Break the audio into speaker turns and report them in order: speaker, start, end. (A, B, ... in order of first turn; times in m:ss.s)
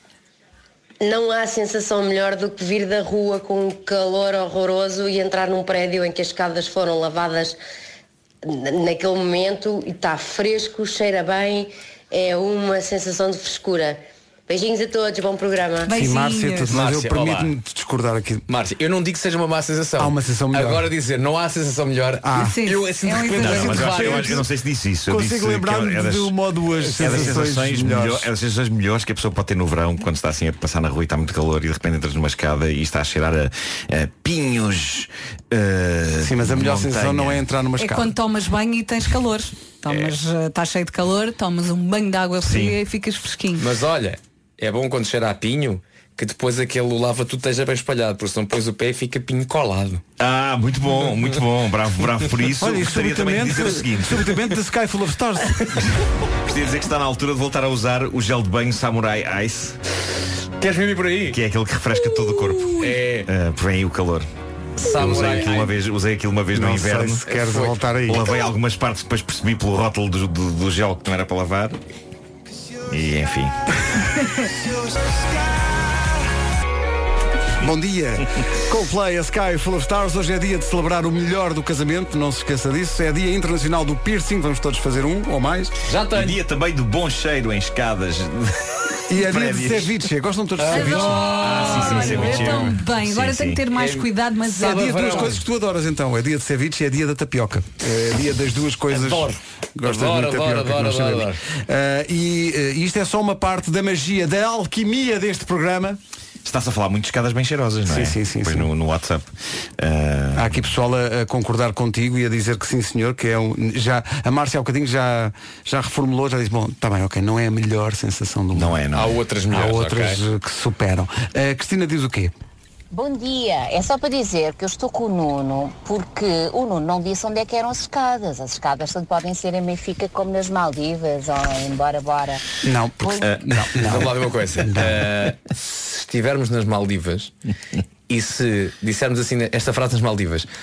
0:01.0-0:07.6 A
0:08.4-0:15.9 A
0:15.8-0:16.8 B
0:15.9-0:18.4 C
0:16.7-0:17.5 D
0:18.5-0:24.4 D
0:20.0-0:20.9 C
0:22.2-0:22.6 C
0:22.4-0:24.3 B
0:23.1-0:24.4 C
0:23.4-0:37.4 E
0:25.1-0:28.3 C
0:36.2-0:38.1 C
0:37.8-0:43.7 B
0:39.9-0:40.1 D
0:42.4-0:42.8 E
0:43.6-0:50.0 D
0:50.2-0:54.4 E
0:52.6-0:55.9 C
0:56.5-0:59.8 E
1:00.6-1:01.4 D
1:01.3-1:04.3 E
1:02.8-1:03.3 D
1:04.8-1:05.8 D
1:05.0-1:07.3 E
1:06.5-1:08.2 C
1:07.3-1:07.7 D
1:08.1-1:11.8 E
1:12.9-1:13.6 E
1:17.6-1:25.7 C
1:25.9-1:26.4 D
1:26.1-1:30.0 E
1:29.1-1:31.3 C
1:30.6-1:32.8 D
1:30.7-1:35.4 B
1:31.4-1:33.6 E
1:33.7-1:35.4 D
1:34.6-1:46.0 C
1:38.9-1:41.4 D
1:46.4-1:49.3 E
1:47.9-1:48.7 C
1:49.8-1:50.6 E
1:50.3-1:58.8 C
1:58.6-1:59.2 E
1:58.9-2:00.2 D
1:59.5-2:02.3 C
2:02.9-2:12.4 F
2:12.6-2:15.1 C
2:13.8-2:17.3 D
2:18.1-2:20.5 D